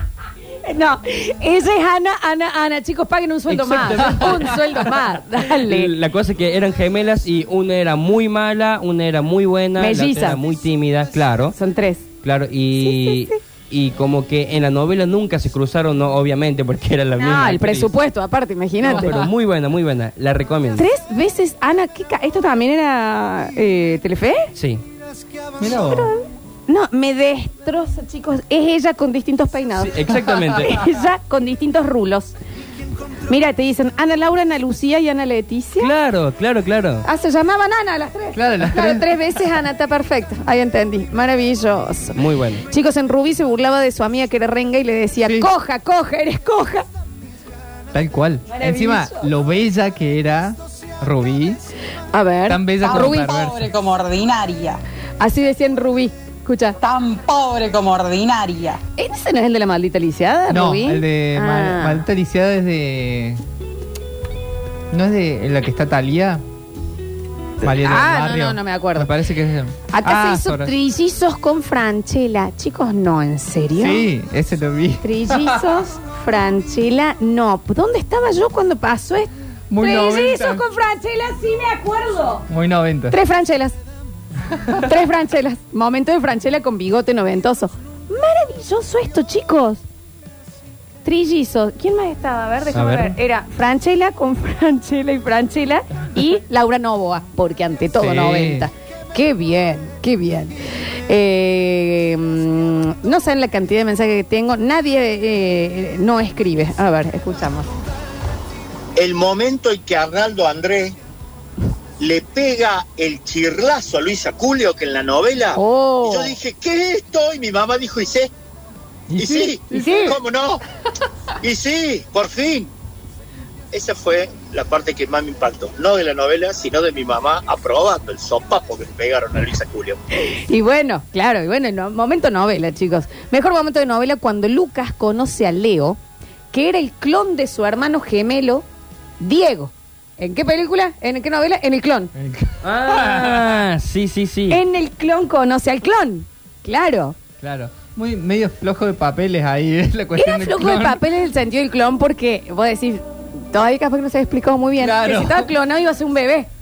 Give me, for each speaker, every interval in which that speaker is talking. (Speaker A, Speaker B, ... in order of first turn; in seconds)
Speaker A: 0.6-5.9, 9.8-10.4, 11.6-12.0, 12.8-13.4, 17.2-19.2, 20.8-24.5, 25.7-32.4, 33.3-35.9, 37.0-46.9, 48.5-49.3, 52.1-53.4, 55.2-56.8, 59.0-62.0, 67.6-69.1, 69.9-74.1, 75.0-82.5, 83.1-83.8, 84.8-89.8, 91.0-100.6, 101.1-107.7, 115.6-116.3, 119.7-120.2, 130.2-136.0, 136.5-138.6, 139.2-142.1, 144.5-147.2, 150.2-156.5
Speaker B: 3.5-4.6, 5.5-11.6, 12.2-17.9, 18.9-20.9, 24.5-24.8, 29.8-30.8, 35.8-37.1, 42.1-42.6, 92.8-93.1, 142.6-144.6
Speaker C: 18.9-19.3, 25.6-26.1, 38.3-39.1, 47.9-51.6, 52.5-53.7, 60.5-63.4, 64.9-66.4, 67.6-70.7, 73.8-75.6, 79.7-80.6, 82.5-83.2, 84.5-84.8, 98.0-98.7, 119.1-120.1, 142.1-143.5, 147.4-151.0, 154.8-155.5
Speaker D: 52.8-54.8, 56.8-58.8
Speaker E: 109.0-111.0, 112.0-118.3, 119.2-120.6, 121.4-122.7, 123.7-130.0